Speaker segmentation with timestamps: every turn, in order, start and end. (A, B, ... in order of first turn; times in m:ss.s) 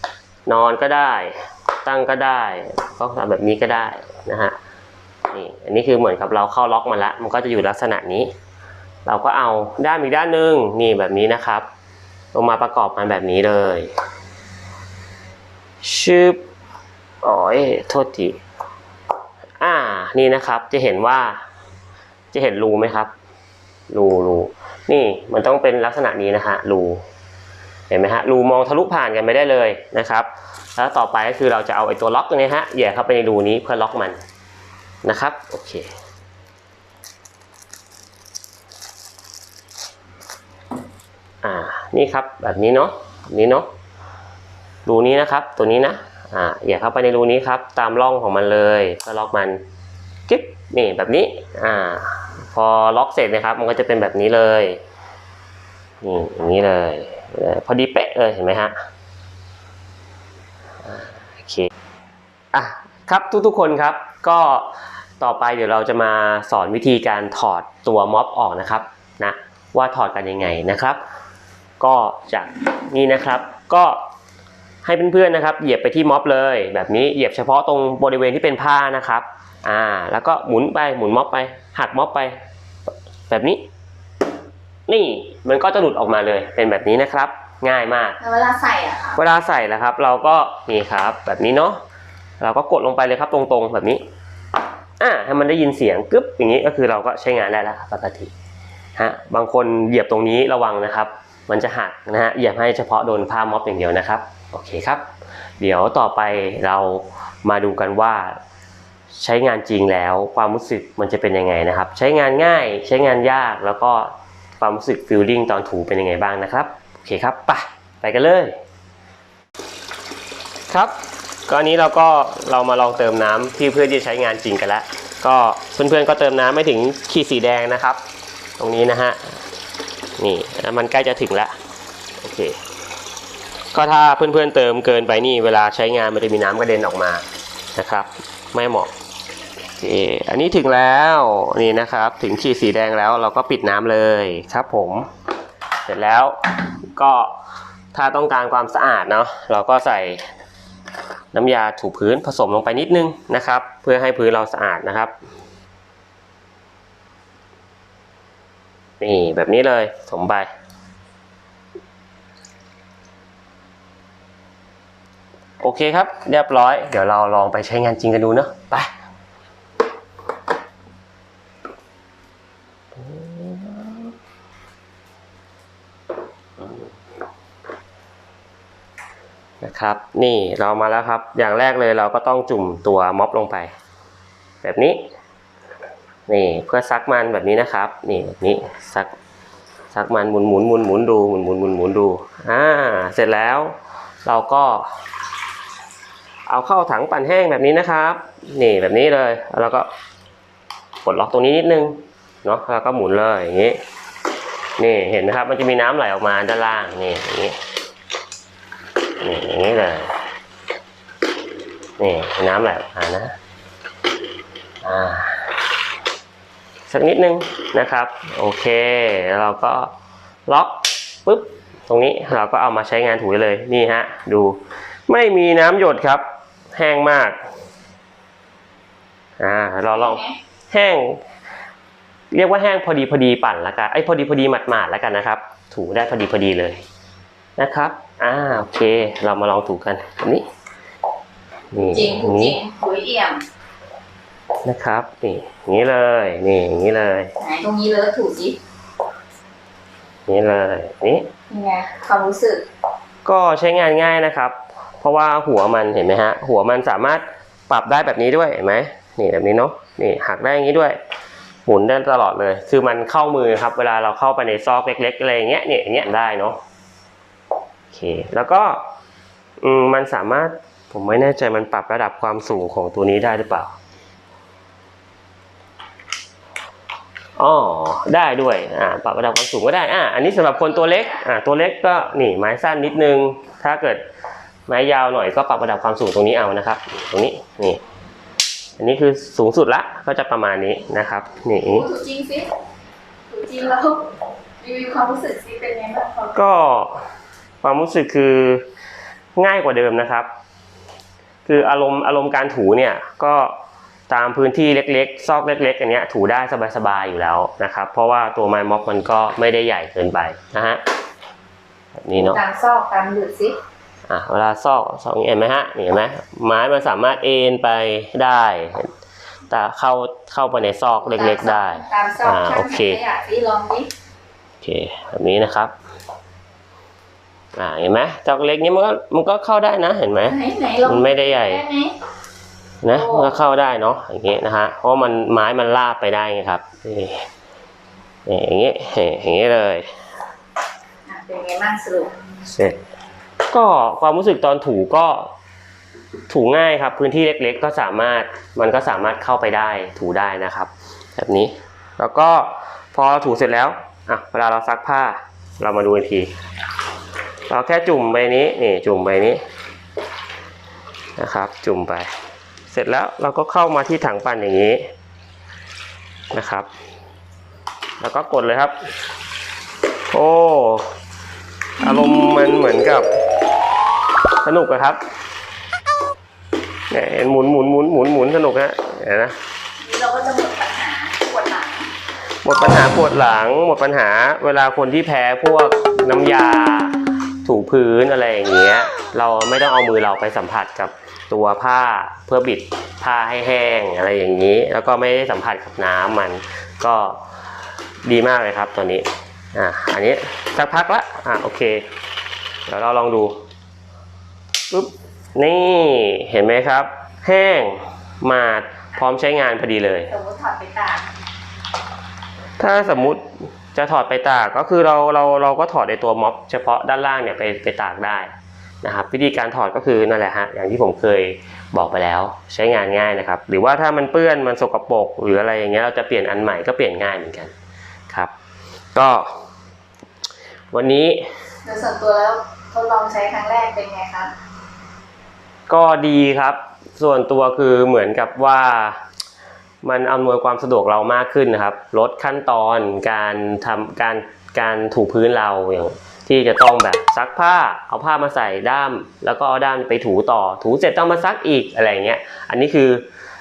0:00.5-0:04.6 A
0:05.3-0:08.3 A
0:09.1-0:11.7 A
0:12.3-0:13.9 A
0:15.8-0:16.4 A
0:17.2-0:18.4 A
0:19.6-0:21.4 A
0:22.3-0:23.1 A
0:23.9-0:27.0 A
0:27.9-0:34.2 A
0:35.0-0:35.9 A
0:41.4-0:43.7 A
0:44.9-0:49.6 A
0:50.3-0:54.8 A
0:56.0-0:58.8 A
1:00.8-1:01.7 A
1:02.5-1:11.0 A
1:11.8-1:14.0 A
1:14.8-1:22.3 A
1:23.3-1:23.6 A
1:24.9-1:28.2 A
1:28.2-1:29.2 B
1:29.2-1:31.8 A
1:32.4-1:34.0 A
1:35.0-1:38.3 A
1:39.0-1:45.0 A
1:45.6-1:48.4 A
1:49.2-1:58.6 A
2:01.5-2:08.0 A
2:08.6-2:09.4 A
2:10.2-2:11.6 A
2:12.2-2:12.6 A
2:13.7-2:18.9 A
2:19.8-2:25.1 A
2:25.8-2:27.4 A
2:27.9-2:30.3 A
2:31.3-2:35.1 A
2:39.0-2:40.5 A
2:45.6-2:48.9 A
2:53.0-2:54.1 A
2:59.6-3:03.7 A
3:04.6-3:05.0 A
3:06.3-3:09.1 A
3:09.9-3:13.7 A
3:14.2-3:14.9 A
3:16.5-3:19.9 A
3:21.0-3:23.8 A
3:24.8-3:27.6 A
3:29.2-3:30.2 A
3:32.0-3:33.4 A
3:34.8-3:35.5 A
3:36.9-3:39.9 A
3:40.5-3:47.4 A
3:49.4-3:51.2 A
3:49.9-3:50.4 B
3:52.3-3:56.8 A
3:57.6-4:00.4 A
4:01.7-4:02.6 A
4:01.9-4:03.4 B
4:04.6-4:07.3 A
4:07.4-4:08.6 B
4:10.3-4:11.3 A
4:11.5-4:12.7 B
4:13.2-4:21.0 A
4:21.7-4:26.6 A
4:27.9-4:28.8 A
4:29.6-4:33.7 A
4:37.4-4:44.0 A
4:40.4-4:41.2 B
4:44.7-4:47.8 A
4:48.8-4:51.9 A
4:51.6-4:52.5 B
4:53.3-4:56.4 B
4:56.3-4:57.0 A
4:57.6-4:58.6 A
4:59.4-5:00.3 A
5:01.5-5:03.6 A
5:04.1-5:10.8 A
5:12.0-5:12.4 A
5:12.2-5:13.6 B
5:14.1-5:18.9 A
5:19.5-5:23.0 A
5:21.0-5:23.9 B
5:24.6-5:25.7 A
5:27.6-5:31.6 A
5:30.2-5:32.0 B
5:32.8-5:37.3 A
5:32.9-5:33.4 B
5:38.3-5:39.9 A
5:41.1-5:42.1 B
5:42.5-5:42.8 A
5:43.5-5:45.3 A
5:46.3-5:56.3 A
5:57.5-5:59.4 A
6:01.2-6:02.1 A
6:02.7-6:04.8 A
6:06.3-6:06.7 A
6:08.0-6:08.7 A
6:10.1-6:10.9 A
6:11.8-6:13.1 A
6:14.4-6:15.0 A
6:16.9-6:19.4 A
6:19.8-6:21.9 B
6:22.4-6:37.2 A
6:38.0-6:41.8 A
6:42.7-6:43.4 A
6:44.7-6:50.1 A
6:50.1-6:51.1 B
6:52.6-6:58.3 A
6:58.8-7:07.5 A
7:09.0-7:09.3 A
7:10.7-7:11.2 A
7:11.6-7:14.3 B
7:15.7-7:19.0 A
7:19.8-7:33.0 A